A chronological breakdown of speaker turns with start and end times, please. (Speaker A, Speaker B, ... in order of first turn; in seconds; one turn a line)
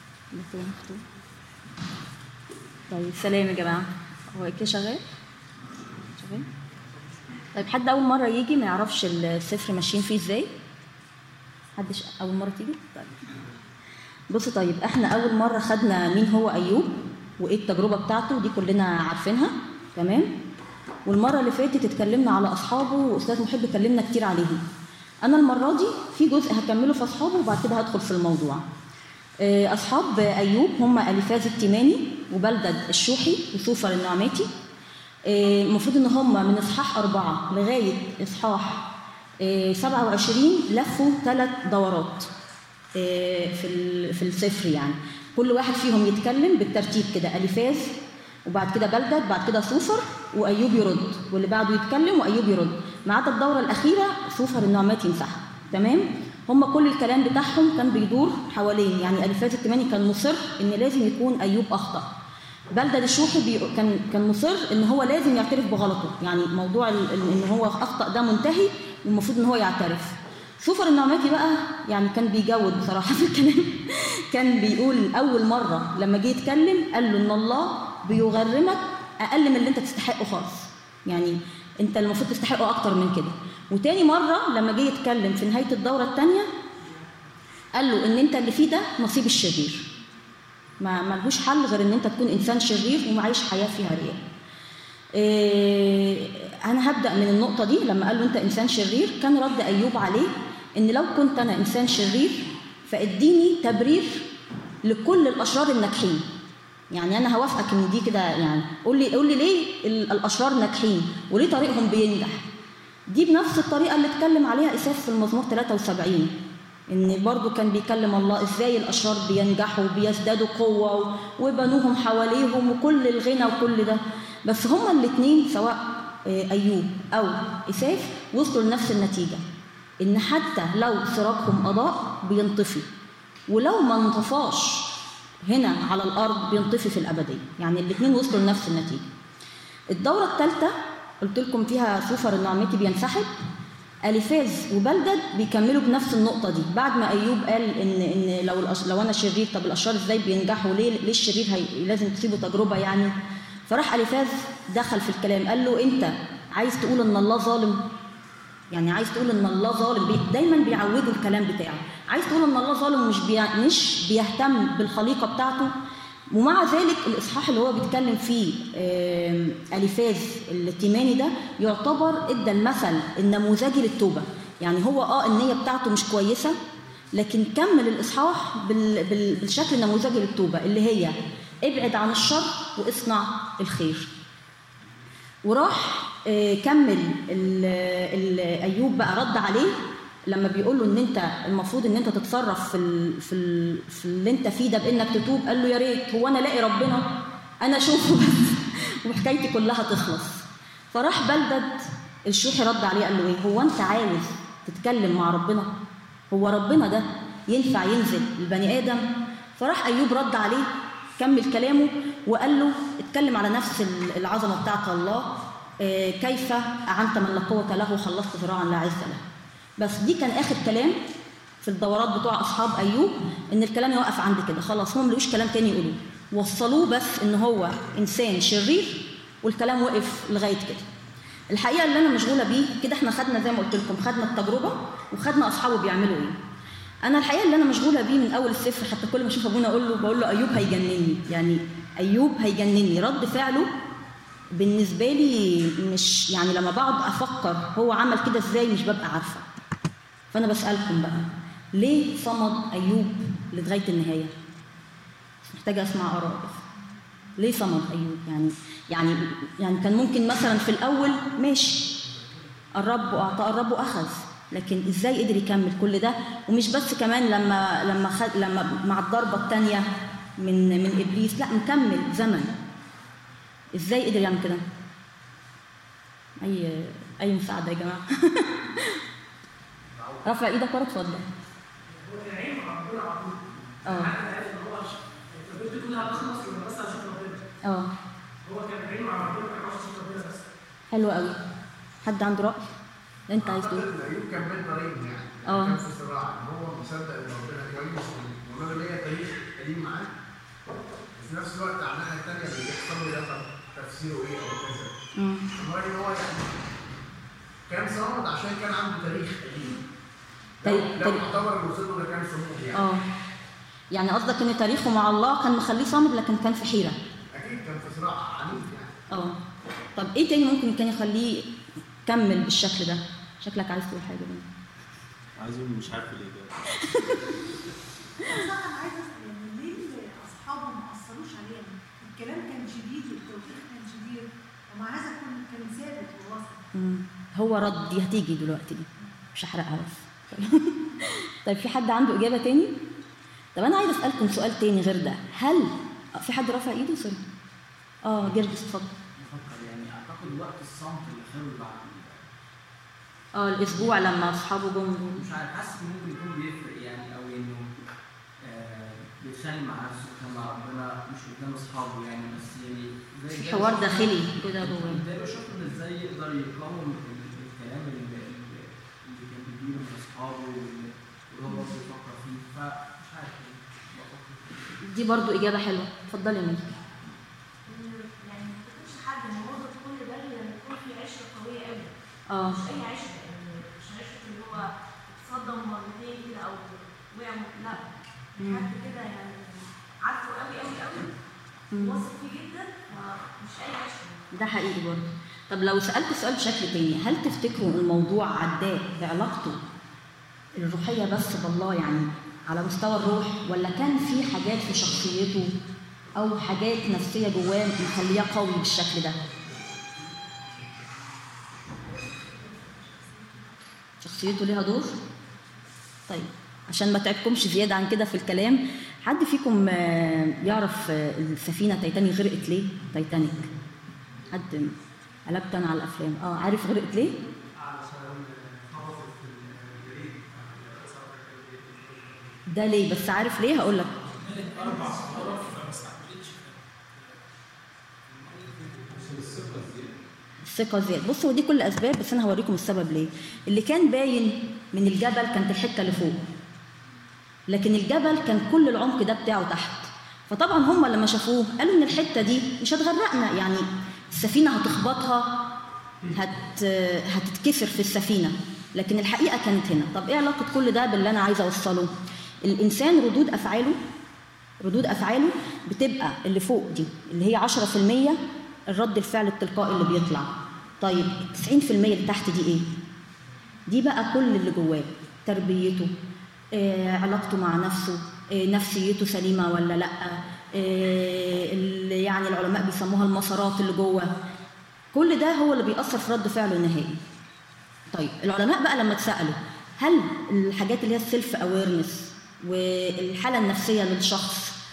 Speaker A: 0.3-1.0
Speaker A: 2.9-5.0
Speaker A: 6.2-6.5
Speaker A: 7.5-10.5
Speaker A: 11.8-13.2
Speaker A: 14.3-20.4
Speaker A: 21.1-24.6
Speaker A: 25.2-28.6
Speaker A: 29.4-34.5
Speaker A: 35.3-38.9
Speaker A: 39.4-42.3
Speaker A: 43.0-62.1
Speaker A: 62.7-86.5
Speaker A: 87.8-89.9
Speaker A: 90.8-94.2
Speaker A: 95.1-104.3
Speaker A: 104.8-106.2
Speaker A: 106.9-112.4
Speaker A: 113.1-116.3
Speaker A: 116.9-129.4
Speaker A: 130.0-132.9
Speaker A: 133.5-139.0
Speaker A: 139.9-143.3
Speaker A: 144.0-153.1
Speaker A: 153.7-157.8
Speaker A: 158.7-165.7
Speaker A: 166.3-176.6
Speaker A: 177.1-184.1
Speaker A: 185.4-189.8
Speaker A: 190.3-197.1
Speaker A: 197.6-205.7
Speaker A: 206.3-209.0
Speaker A: 209.6-219.2
Speaker A: 219.8-221.0
Speaker A: 221.6-230.8
Speaker A: 231.5-236.4
Speaker A: 237.0-243.7
Speaker A: 244.5-249.4
Speaker A: 250.3-254.3
Speaker A: 255.4-256.6
Speaker A: 257.4-262.0
Speaker A: 262.8-269.9
Speaker A: 270.4-272.6
Speaker A: 273.8-274.6
Speaker A: 276.4-279.0
Speaker A: 280.2-281.3
Speaker B: 281.9-287.4
Speaker A: 283.9-284.2
Speaker A: 287.6-287.9
Speaker B: 288.4-290.4
Speaker A: 290.9-291.4
Speaker A: 292.0-292.7
Speaker A: 293.3-293.9
Speaker C: 293.4-300.1
Speaker A: 295.5-295.8
Speaker C: 301.2-306.5
Speaker A: 305.2-305.5
Speaker C: 307.7-309.8
Speaker C: 310.6-312.8
Speaker A: 310.6-311.2
Speaker A: 312.8-313.0
Speaker A: 313.9-317.0
Speaker C: 317.3-319.0
Speaker A: 319.1-319.4
Speaker A: 319.9-321.5
Speaker A: 322.1-324.5
Speaker D: 325.4-326.6
Speaker E: 328.3-336.6
Speaker A: 336.7-342.8
Speaker A: 343.6-347.2
Speaker A: 348.0-348.9
Speaker F: 349.2-352.3
Speaker A: 353.4-355.2
Speaker F: 355.1-357.7
Speaker F: 358.4-374.8
Speaker A: 363.4-365.0
Speaker A: 374.8-376.6
Speaker G: 377.7-381.9
Speaker A: 382.3-382.6
Speaker G: 382.4-391.1
Speaker A: 388.4-388.7
Speaker A: 391.7-392.0
Speaker G: 391.8-394.2
Speaker A: 394.3-399.6
Speaker A: 400.6-405.5
Speaker A: 406.2-409.2
Speaker A: 414.0-414.9
Speaker A: 416.1-423.5
Speaker A: 424.3-424.7
Speaker A: 425.3-427.2
Speaker F: 427.5-432.4
Speaker A: 432.5-433.9
Speaker F: 434.0-436.6
Speaker F: 438.1-439.6
Speaker D: 438.9-439.9
Speaker A: 440.4-446.2
Speaker A: 447.5-455.5
Speaker A: 456.1-461.9
Speaker A: 462.4-463.8
Speaker A: 464.6-472.7
Speaker A: 473.7-475.9
Speaker A: 476.5-484.1
Speaker A: 484.9-487.0
Speaker A: 487.9-494.6